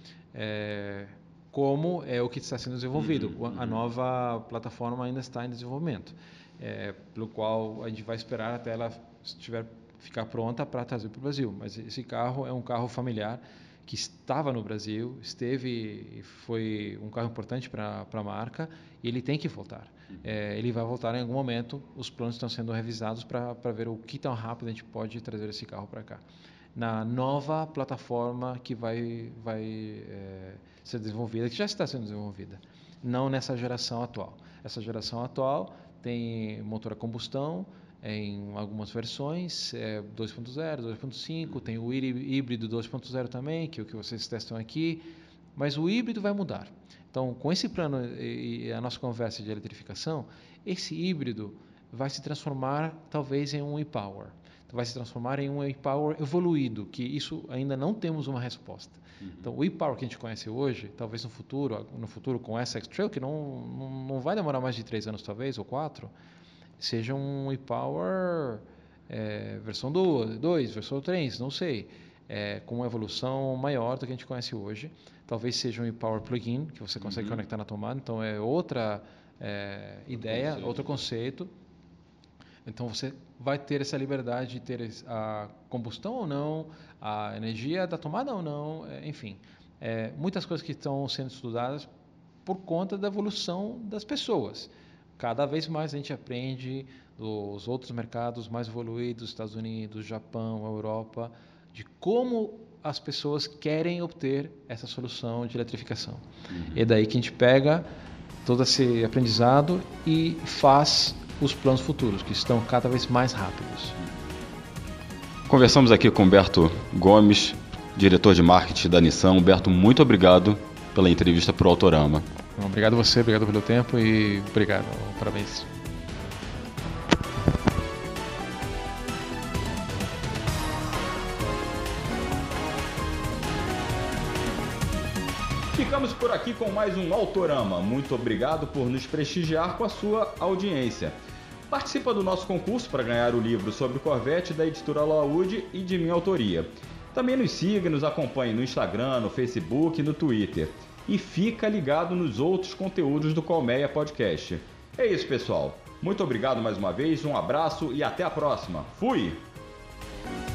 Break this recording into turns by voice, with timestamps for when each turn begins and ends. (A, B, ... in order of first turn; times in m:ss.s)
0:00.3-0:26.2 A
0:03.0-0:03.8 B
0:26.8-1:06.1 A
1:06.8-1:21.5 A
1:17.0-1:17.4 B
1:22.6-1:31.9 A
1:32.5-1:47.9 A
1:46.5-1:46.8 B
1:48.4-1:54.0 A
1:55.5-2:02.3 B
2:02.6-2:05.7 A
2:15.7-2:21.2 B
2:21.7-2:39.4 B